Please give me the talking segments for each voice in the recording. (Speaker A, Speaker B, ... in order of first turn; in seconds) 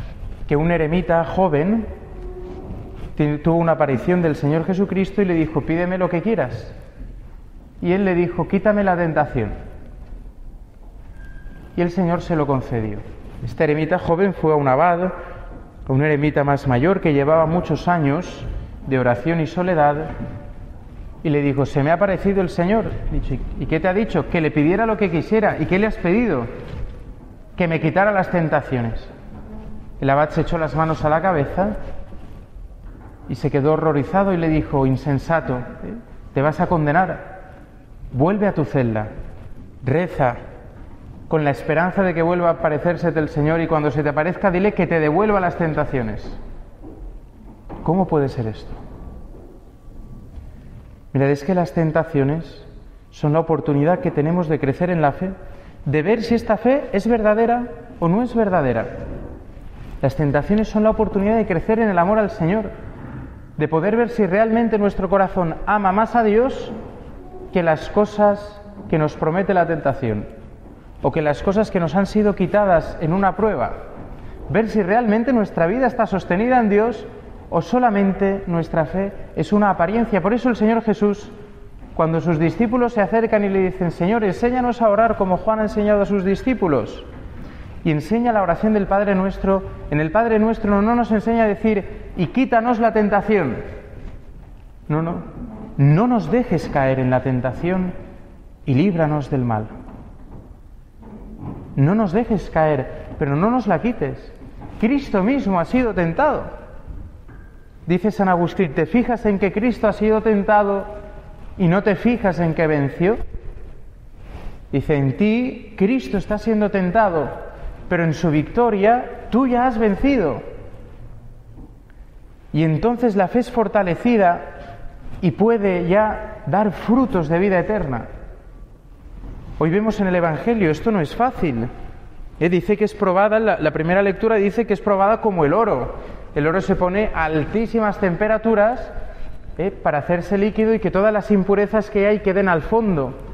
Speaker A: 0.5-1.9, 3.1-6.7, 7.8-9.5, 11.7-15.1, 15.8-20.1, 21.2-26.5, 27.6-29.1, 30.0-31.7, 33.3-37.4, 38.1-39.1, 39.8-40.4, 41.3-46.4, 47.8-48.8, 51.1-59.0, 60.0-62.7, 63.6-66.8, 67.5-70.3, 71.0-73.8, 74.5-81.3, 81.9-87.1, 87.8-93.6, 94.9-97.9, 98.7-99.7, 101.8-106.5, 107.8-110.9, 111.6-113.2, 114.7-117.3, 117.9-120.4, 122.5-124.6, 125.2-128.1, 129.6-131.7, 132.4-138.9, 139.6-143.2